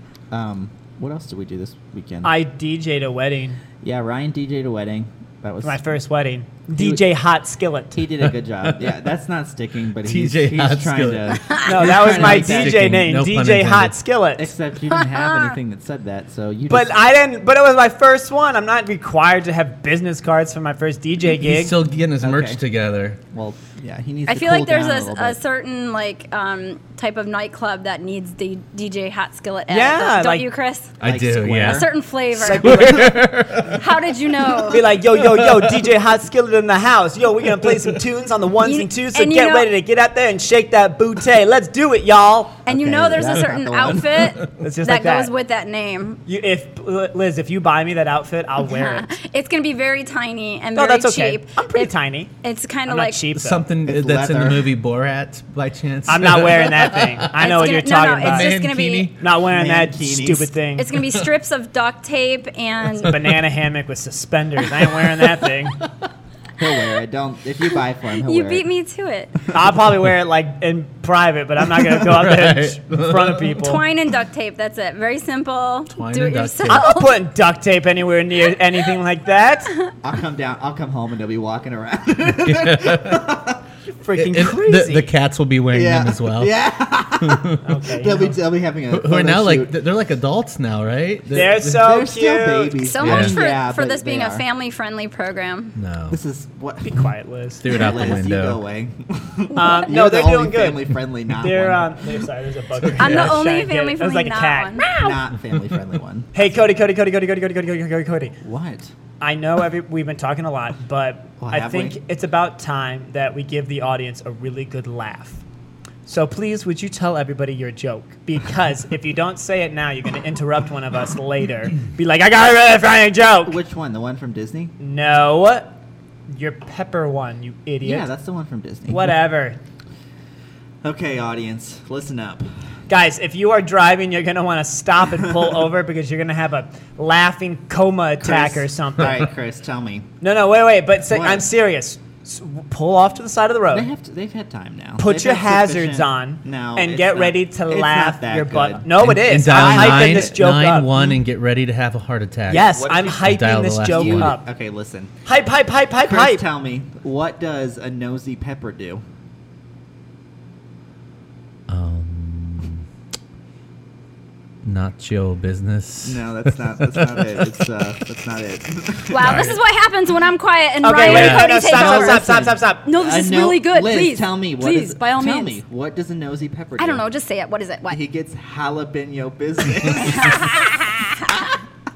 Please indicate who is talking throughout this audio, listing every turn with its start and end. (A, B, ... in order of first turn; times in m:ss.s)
0:00.3-0:02.3 A
0:02.2-0:03.6 B
0:03.8-0:05.8 A
0:05.6-0:08.0 B
0:06.7-0:07.0 A
0:07.9-0:12.9 A
0:10.0-0:14.0 C
0:11.6-0:14.5 B
0:14.4-0:17.0 A
0:14.9-0:15.6 D
0:16.7-0:21.8 B
0:21.3-0:23.2 C
0:22.2-0:22.6 A
0:23.3-0:25.4 A
0:24.3-0:30.9 D
0:29.7-0:30.5 B
0:31.0-0:31.9 C
0:31.0-0:31.9 A
0:31.6-0:34.9 D
0:32.3-0:33.2 B
0:32.5-0:33.9 C
0:34.6-0:42.6 B
0:35.2-0:35.8 C
0:38.6-0:39.7 D
0:42.6-0:46.2 D
0:42.6-0:44.4 A
0:44.6-0:45.3 B
0:46.2-0:49.1 B
0:48.6-0:53.2 D
0:50.7-0:52.3 B
0:52.8-0:53.6 B
0:53.3-0:57.3 C
0:53.8-0:54.7 A
0:56.1-0:58.5 B
0:57.4-0:59.1 D
0:58.0-0:59.2 C
0:59.2-1:00.9 B
0:59.4-1:00.5 A
1:00.8-1:03.2 D
1:03.0-1:05.8 B
1:06.6-1:08.6 A
1:08.2-1:09.4 D
1:09.5-1:13.8 B
1:12.0-1:13.5 C
1:13.6-1:17.2 D
1:15.9-1:16.9 C
1:16.7-1:19.7 B
1:20.0-1:23.6 A
1:22.4-1:23.2 C
1:24.0-1:25.1 B
1:24.2-1:26.5 C
1:25.7-1:29.7 A
1:27.2-1:27.6 C
1:27.6-1:28.4 B
1:28.9-1:31.8 C
1:31.3-1:32.9 B
1:31.6-1:34.4 A
1:32.8-1:35.7 D
1:33.0-1:33.4 C
1:35.8-1:36.2 C
1:36.1-1:37.0 A
1:36.8-1:38.2 B
1:37.6-1:38.6 C
1:37.7-1:42.0 A
1:39.5-1:45.2 B
1:42.8-1:43.4 C
1:43.0-1:44.9 D
1:45.0-1:46.4 A
1:46.3-1:48.4 B
1:48.4-1:48.9 A
1:49.2-1:55.4 B
1:51.4-1:52.0 A
1:56.0-2:03.6 B
2:03.4-2:04.7 A
2:04.8-2:05.8 B
2:06.3-2:08.1 B
2:07.8-2:09.1 A
2:08.9-2:09.6 B
2:10.8-2:12.5 A
2:12.9-2:19.3 B
2:18.2-2:20.1 A
2:20.2-2:23.9 B
2:21.1-2:21.5 A
2:23.7-2:28.9 A
2:25.0-2:31.1 B
2:29.0-2:34.3 C
2:29.4-2:30.4 A
2:32.5-2:34.4 B
2:32.7-2:33.3 A
2:33.8-2:35.1 A
2:35.2-2:36.4 B
2:36.0-2:39.0 A
2:41.7-2:42.8 C
2:44.6-2:47.5 C
2:46.0-2:49.5 A
2:49.1-2:55.6 D
2:49.2-2:49.6 C
2:50.8-2:52.8 B
2:51.0-2:51.5 C
2:51.6-2:57.0 A
2:56.8-2:58.0 D
2:57.9-3:00.6 A
3:00.0-3:01.3 D